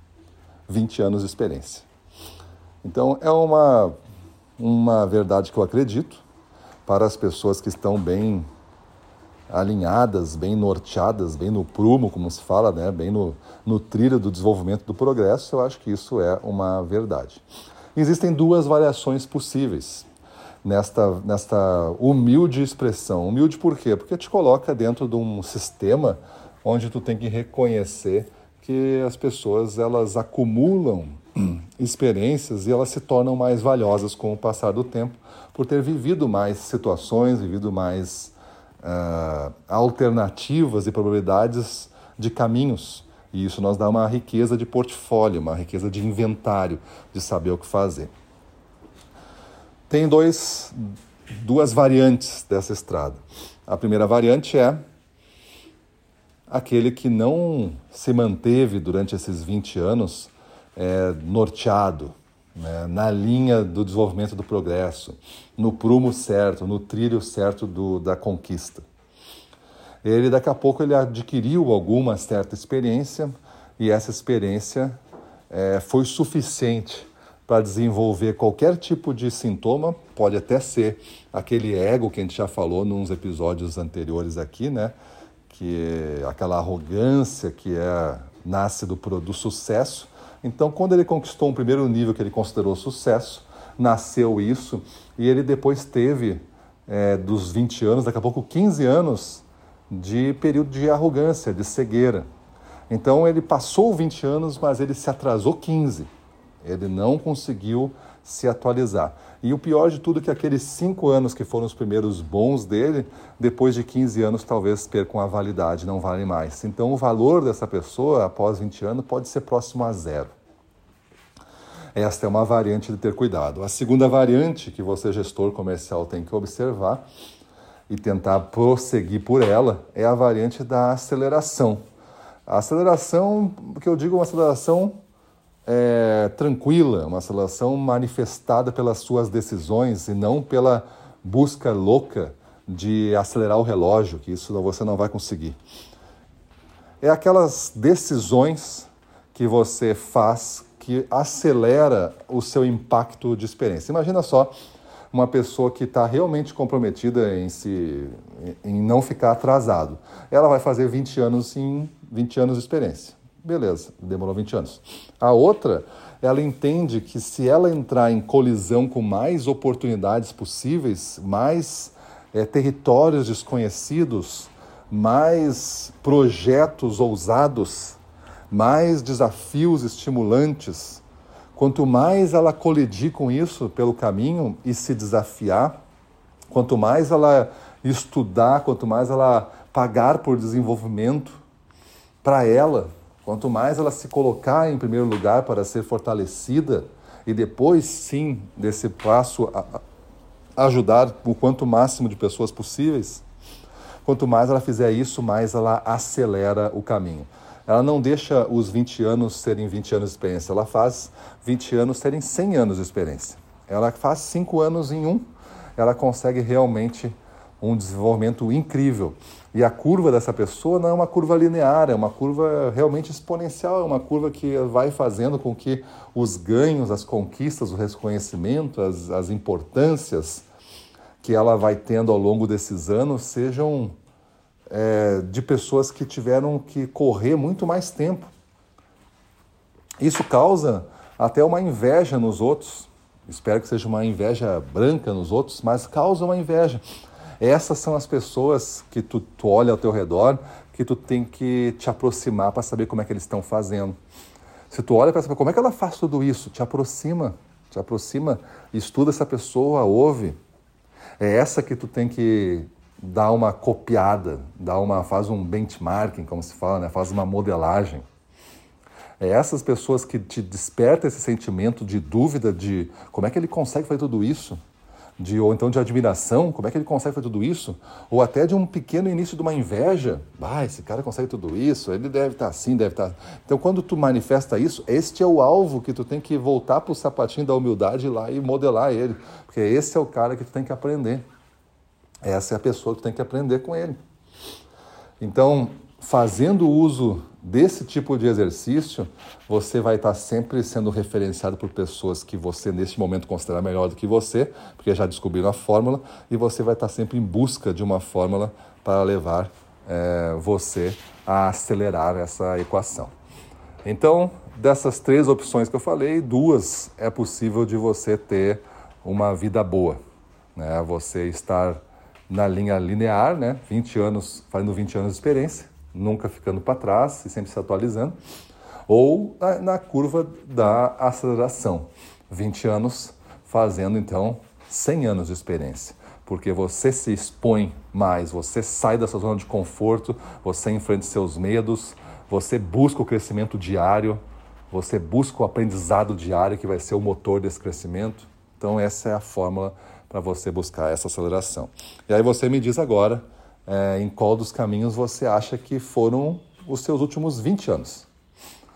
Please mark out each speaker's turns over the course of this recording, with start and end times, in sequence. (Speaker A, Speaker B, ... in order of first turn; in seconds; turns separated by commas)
Speaker A: 0.7-1.9, Speaker A: 2.8-3.9, Speaker A: 4.6-6.2, Speaker A: 6.8-8.5, Speaker A: 9.5-17.4, Speaker A: 17.9-20.1, Speaker A: 20.6-48.1, Speaker A: 49.9-54.8, Speaker A: 56.5-68.8, Speaker A: 70.0-75.0, Speaker A: 75.5-84.9, Speaker A: 85.5-102.2, Speaker A: 102.9-106.1, Speaker A: 106.6-120.3, Speaker A: 121.9-127.0, Speaker A: 127.9-131.8, Speaker A: 132.5-135.0, Speaker A: 135.7-145.6, Speaker A: 147.0-154.5, Speaker A: 155.1-178.0, Speaker A: 178.5-181.0, Speaker A: 181.5-185.7, Speaker A: 186.5-191.4, Speaker A: 192.2-199.8, Speaker A: 200.6-203.2, Speaker A: 204.0-215.2, Speaker A: 215.8-230.4, Speaker A: 231.2-233.9, Speaker A: 234.7-238.3, Speaker A: 240.0-246.8, Speaker A: 247.4-253.9, Speaker A: 254.7-260.4, Speaker A: 261.2-268.0, Speaker A: 269.2-274.6, Speaker A: 275.2-291.2, Speaker A: 292.2-294.0, Speaker A: 295.2-313.1, Speaker A: 313.8-320.0, Speaker A: 320.6-328.1, Speaker A: 328.9-358.1